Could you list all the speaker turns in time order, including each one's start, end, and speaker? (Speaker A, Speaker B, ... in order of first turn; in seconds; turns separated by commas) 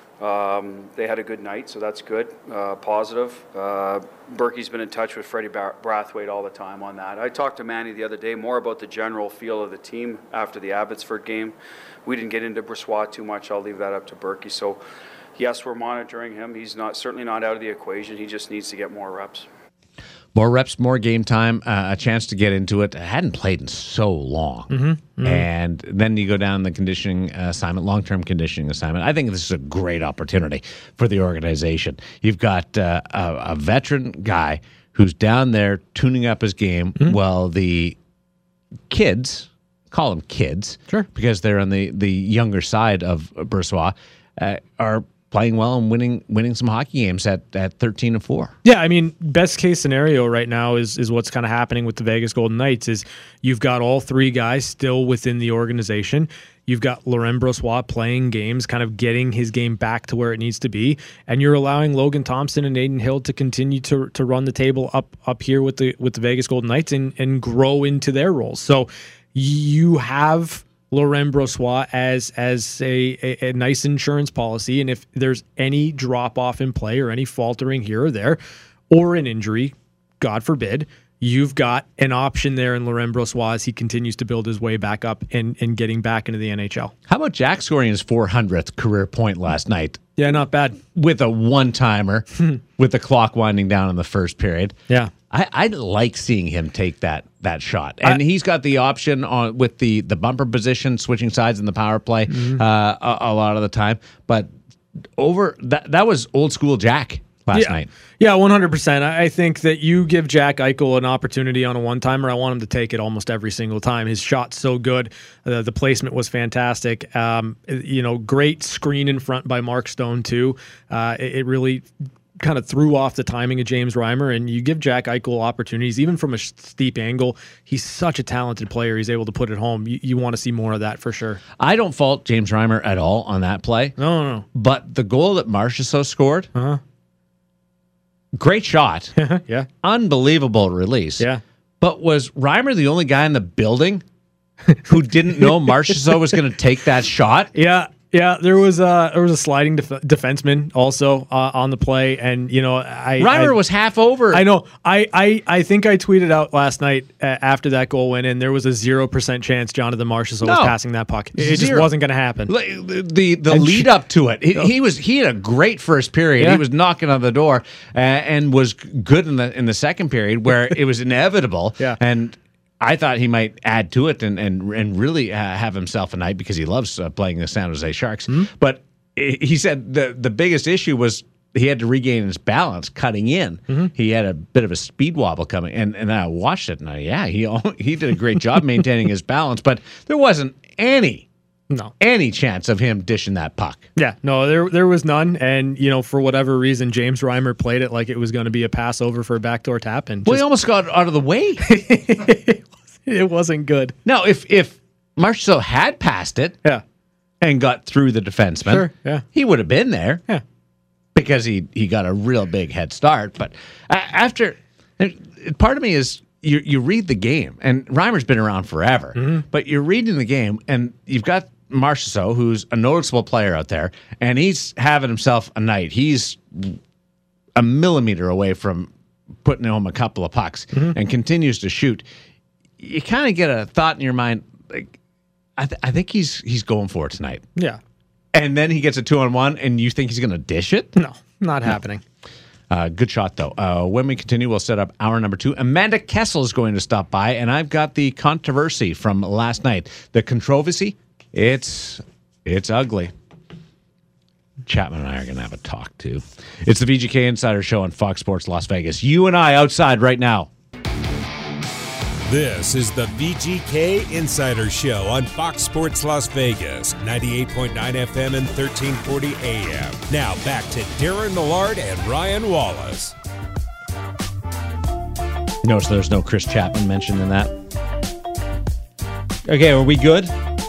Speaker A: 0.2-14.8, Speaker A: 15.4-19.5, Speaker B: 20.4-38.0, Speaker C: 24.7-25.5, Speaker B: 38.9-48.5, Speaker C: 48.6-78.4, Speaker C: 78.9-86.9, Speaker B: 87.1-90.0, Speaker C: 90.2-90.8, Speaker B: 90.9-94.8, Speaker B: 95.3-104.5, Speaker C: 102.3-102.6, Speaker B: 105.2-107.9, Speaker C: 107.5-121.9, Speaker C: 122.4-131.4, Speaker B: 131.6-134.0, Speaker C: 134.0-134.4, Speaker B: 134.5-136.5, Speaker C: 136.6-136.8, Speaker B: 138.3-139.2, Speaker C: 139.2-139.7, Speaker B: 139.8-141.3, Speaker B: 141.8-144.0, Speaker B: 144.9-147.5, Speaker C: 145.4-146.2, Speaker C: 147.5-153.6, Speaker B: 153.2-154.5, Speaker C: 154.3-162.5, Speaker B: 160.4-160.8, Speaker B: 161.3-161.9, Speaker B: 162.5-191.3, Speaker C: 163.5-163.9, Speaker C: 166.4-166.6, Speaker B: 192.0-193.9, Speaker C: 194.0-200.4, Speaker B: 200.3-201.7, Speaker C: 201.6-203.9, Speaker B: 204.1-206.6, Speaker B: 207.4-210.2, Speaker C: 208.7-209.2, Speaker B: 211.2-226.8, Speaker C: 219.2-219.4, Speaker B: 227.6-228.9, Speaker B: 229.4-232.1, Speaker B: 232.8-234.9, Speaker B: 235.6-237.4, Speaker B: 238.3-240.9, Speaker C: 241.0-242.0, Speaker B: 242.7-253.1, Speaker B: 254.7-260.5, Speaker D: 262.3-273.1, Speaker B: 275.6-277.5, Speaker B: 279.4-280.4